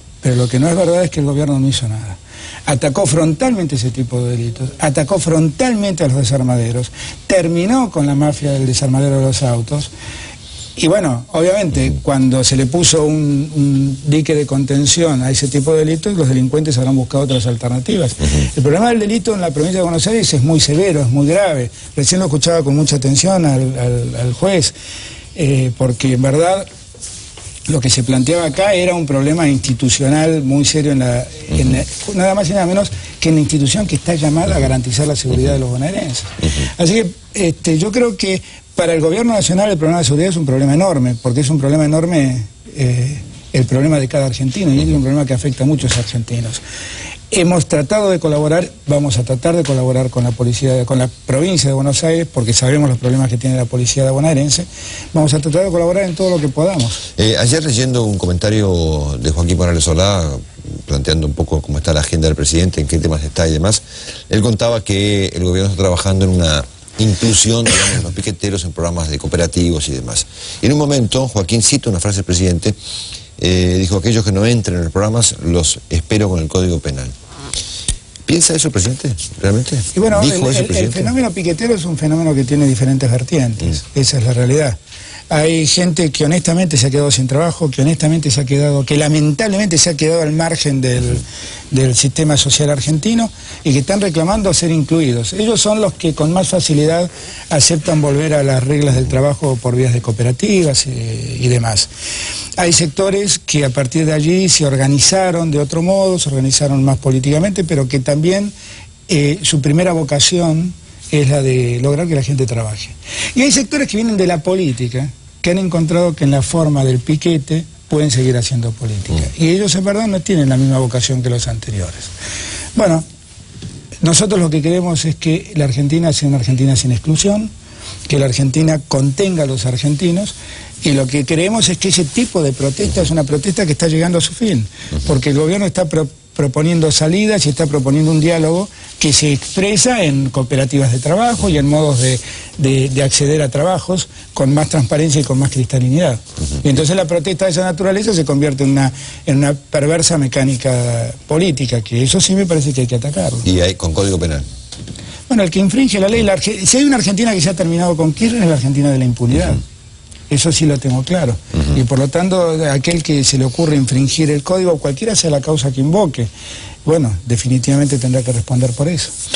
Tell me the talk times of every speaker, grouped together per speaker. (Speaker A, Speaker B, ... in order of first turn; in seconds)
Speaker A: 0.2-9.9, 10.8-24.7, 25.4-26.7, 27.7-46.6, 47.3-57.0, 80.0-84.8, 85.3-101.9, 102.6-108.5, 109.1-122.1, 122.8-123.0, 124.0-127.5, 128.1-153.5, 155.3-159.6, 160.3-166.3, 166.8-169.1
Speaker B: 31.6-31.8, 57.2-72.8, 73.4-77.1, 78.3-81.1, 153.4-154.5